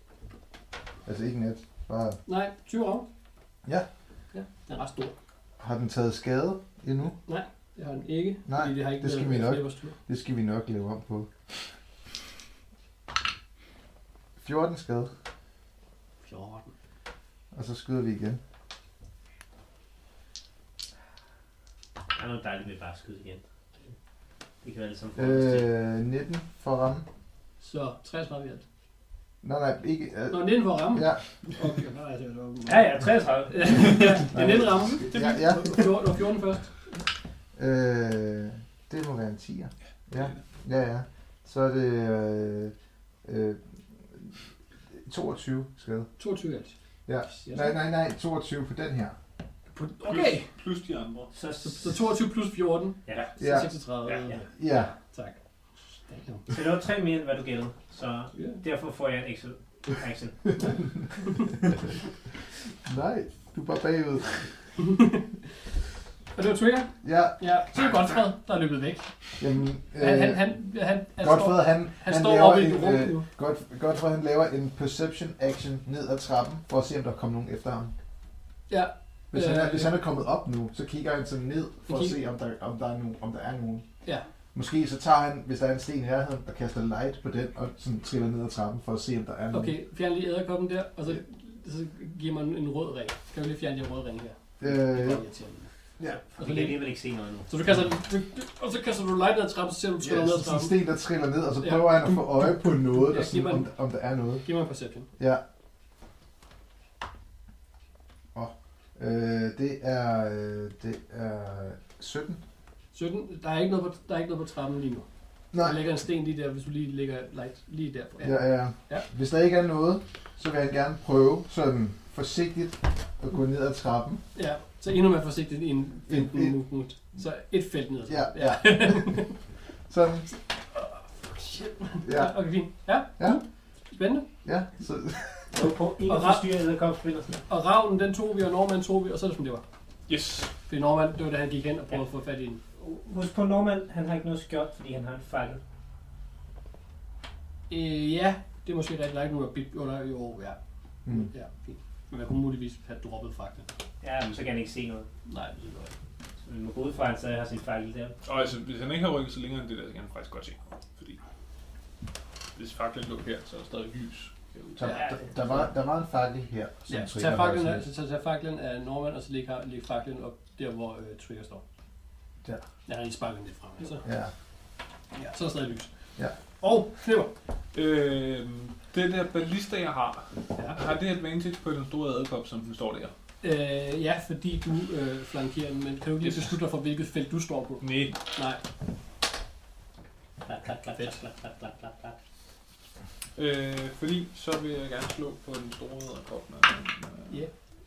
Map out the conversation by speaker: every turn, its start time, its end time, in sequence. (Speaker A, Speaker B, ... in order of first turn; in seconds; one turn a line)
Speaker A: 1.1-2.2
Speaker B: 2.3-3.1
Speaker B: 4.3-5.1
Speaker A: 5.6-7.2
Speaker B: 7.2-10.0
Speaker A: 8.5-11.3
Speaker A: 14.4-15.1
Speaker B: 16.2-16.7
Speaker A: 17.5-18.4
Speaker C: 22.1-23.4
Speaker C: 24.6-25.7
Speaker A: 25.2-27.1
Speaker B: 27.6-28.6
Speaker A: 29.4-31.2
Speaker B: 30.3-36.8
Speaker C: 32.7-34.2
Speaker A: 34.3-35.9
Speaker D: 35.1-35.8
Speaker A: 37.6-42.7
Speaker A: 43.2-44.3
Speaker A: 44.9-46.1
Speaker B: 46.2-46.7
Speaker A: 47.1-49.2
Speaker B: 47.3-47.8
Speaker B: 49.7-50.5
Speaker D: 50.0-51.3
Speaker C: 51.3-52.0
Speaker B: 51.6-56.5
Speaker A: 53.4-53.8
Speaker C: 54.0-54.4
Speaker A: 54.5-54.9
Speaker C: 56.5-60.8
Speaker B: 58.3-58.6
Speaker A: 62.9-64.5
Speaker B: 64.8-65.3
Speaker B: 66.3-69.1
Speaker A: 67.0-67.4
Speaker A: 69.4-70.5
Speaker B: 70.0-73.3
Speaker A: 71.2-77.9
Speaker B: 78.7-80.0
Speaker A: 79.3-83.8
Speaker B: 81.9-82.2
Speaker A: 84.5-89.7
Speaker B: 89.5-95.7
Speaker A: 94.6-95.2
Speaker C: 96.2-97.5
Speaker B: 96.4-96.8
Speaker B: 97.5-100.8
Speaker A: 100.0-104.5
Speaker B: 101.6-102.5
Speaker B: 103.0-103.7
Speaker B: 104.4-105.1
Speaker A: 105.2-105.4
Speaker A: 108.3-112.4
Speaker B: 112.9-115.1
Speaker A: 115.5-115.8
Speaker B: 115.6-119.1
Speaker A: 118.2-124.2
Speaker B: 124.3-129.4
Speaker A: 126.1-126.6
Speaker A: 128.1-129.2
Speaker A: 129.9-130.3
Speaker B: 130.7-134.3
Speaker A: 132.0-132.5
Speaker A: 134.4-135.5
Speaker C: 135.5-137.4
Speaker B: 136.1-136.4
Speaker B: 137.5-139.6
Speaker D: 140.1-140.5
Speaker B: 140.7-142.6
Speaker C: 142.8-145.6
Speaker B: 147.7-153.7
Speaker C: 154.0-155.1
Speaker B: 155.3-155.9
Speaker C: 156.4-158.2
Speaker D: 158.2-161.2
Speaker D: 162.6-165.0
Speaker A: 164.8-167.9
Speaker C: 164.9-165.2
Speaker B: 166.9-171.6
Speaker B: 172.9-174.1
Speaker A: 174.0-174.3
Speaker B: 175.2-175.9
Speaker B: 176.6-177.3
Speaker D: 177.7-183.1
Speaker B: 183.4-188.6
Speaker D: 186.2-186.6
Speaker D: 187.8-188.2
Speaker C: 190.4-192.2
Speaker B: 190.9-191.2
Speaker D: 193.4-197.4